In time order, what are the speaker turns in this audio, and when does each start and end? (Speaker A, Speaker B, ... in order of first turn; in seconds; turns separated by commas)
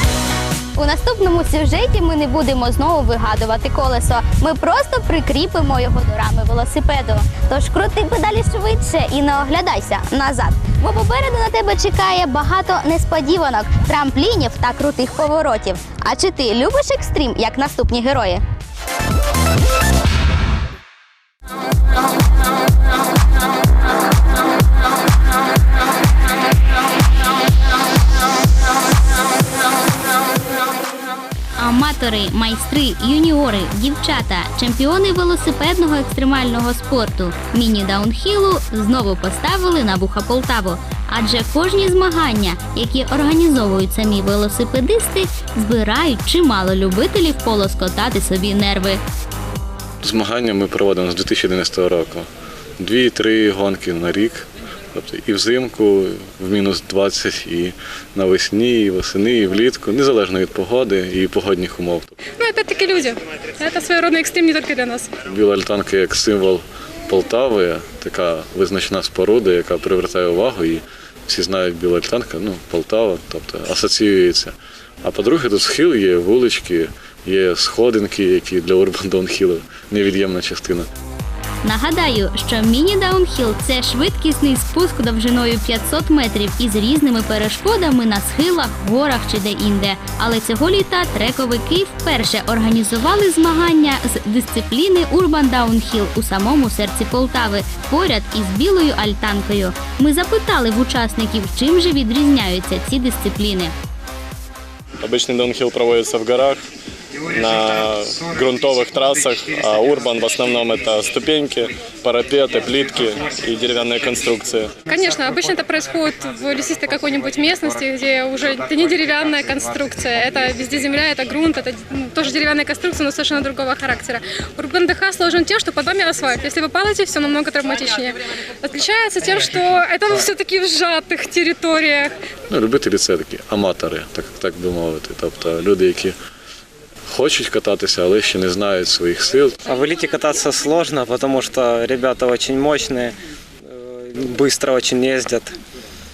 Speaker A: 0.8-18.4, Speaker A: 31.6-49.0, Speaker B: 50.0-52.3, Speaker B: 52.8-62.1, Speaker C: 62.4-65.1, Speaker B: 65.3-80.9, Speaker A: 81.6-103.7, Speaker D: 105.0-106.6, Speaker D: 107.3-114.7, Speaker C: 114.8-132.2, Speaker B: 132.5-136.1, Speaker B: 137.1-139.6, Speaker E: 139.6-145.5